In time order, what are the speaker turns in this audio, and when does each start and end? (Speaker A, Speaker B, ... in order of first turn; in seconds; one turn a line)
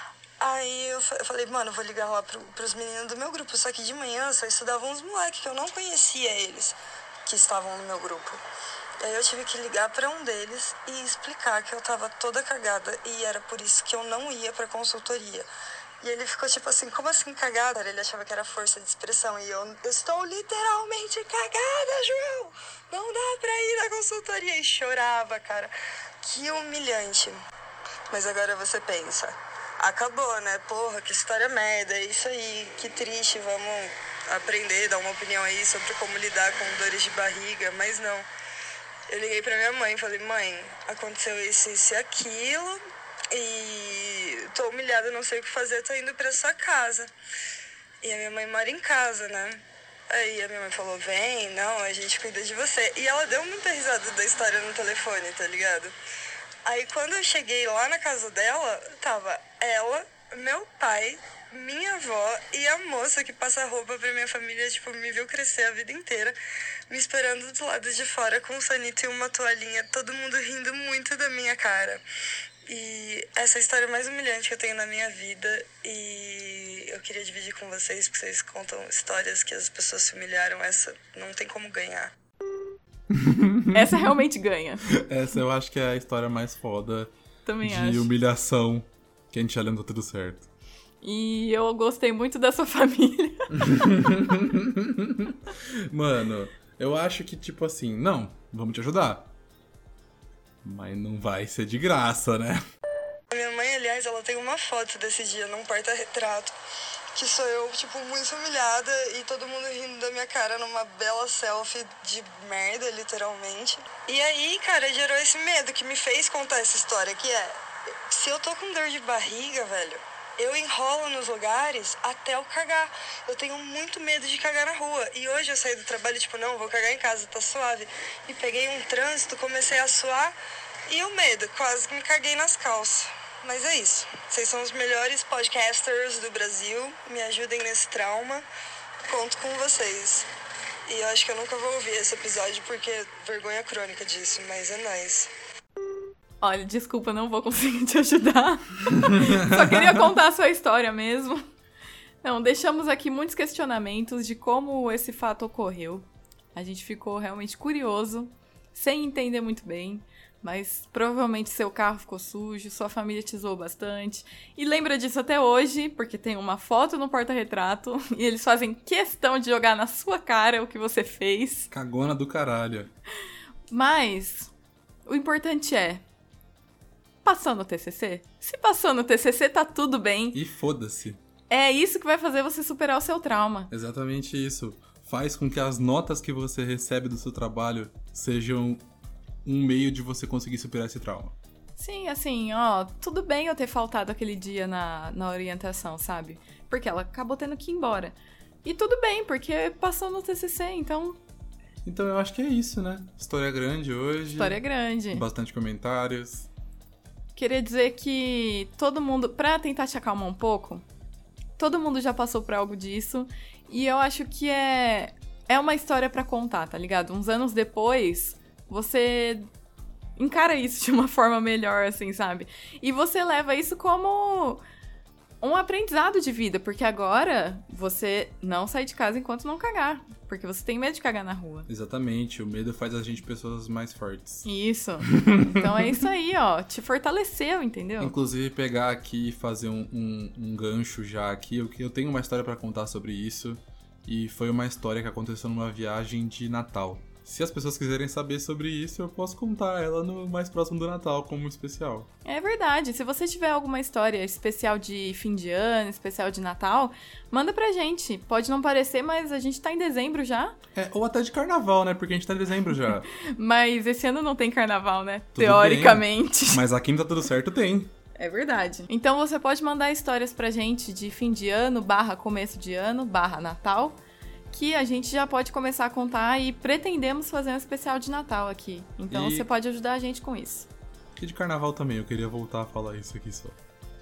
Speaker A: 0.4-8.4
Speaker A: 9.0-15.5
Speaker A: 16.0-27.4
Speaker A: 28.1-38.3
Speaker A: 39.1-47.1
Speaker A: 48.0-55.9
Speaker A: 56.6-66.4
Speaker A: 66.9-72.0
Speaker A: 72.7-82.1
Speaker B: 83.1-84.0
Speaker C: 83.7-84.8
Speaker B: 84.9-90.5
Speaker C: 87.4-88.1
Speaker C: 91.0-93.7
Speaker B: 93.5-99.3
Speaker B: 100.6-102.6
Speaker A: 103.3-106.5
Speaker A: 107.1-130.3
Speaker A: 130.9-138.4
Speaker A: 139.1-140.3
Speaker A: 140.9-145.3
Speaker C: 146.4-151.4
Speaker B: 149.0-150.0
Speaker C: 152.2-171.7
Speaker B: 171.7-172.9
Speaker C: 173.7-174.5
Speaker C: 175.1-176.0
Speaker C: 177.2-180.4
Speaker B: 180.3-181.2
Speaker C: 181.5-183.7
Speaker B: 183.7-188.8
Speaker B: 189.4-191.3
Speaker C: 191.8-201.2
Speaker B: 201.8-206.5
Speaker C: 204.3-205.2
Speaker C: 207.3-210.8
Speaker C: 211.6-219.5
Speaker C: 220.2-224.6
Speaker C: 225.4-231.7
Speaker B: 231.7-234.4
Speaker C: 234.4-238.1
Speaker B: 235.1-235.9
Speaker B: 238.0-252.1
Speaker C: 252.2-260.6
Speaker B: 260.7-263.1
Speaker C: 263.1-266.6
Speaker B: 265.3-267.9
Speaker C: 268.2-274.0
Speaker C: 274.5-280.7
Speaker B: 279.1-279.5
Speaker B: 281.2-283.6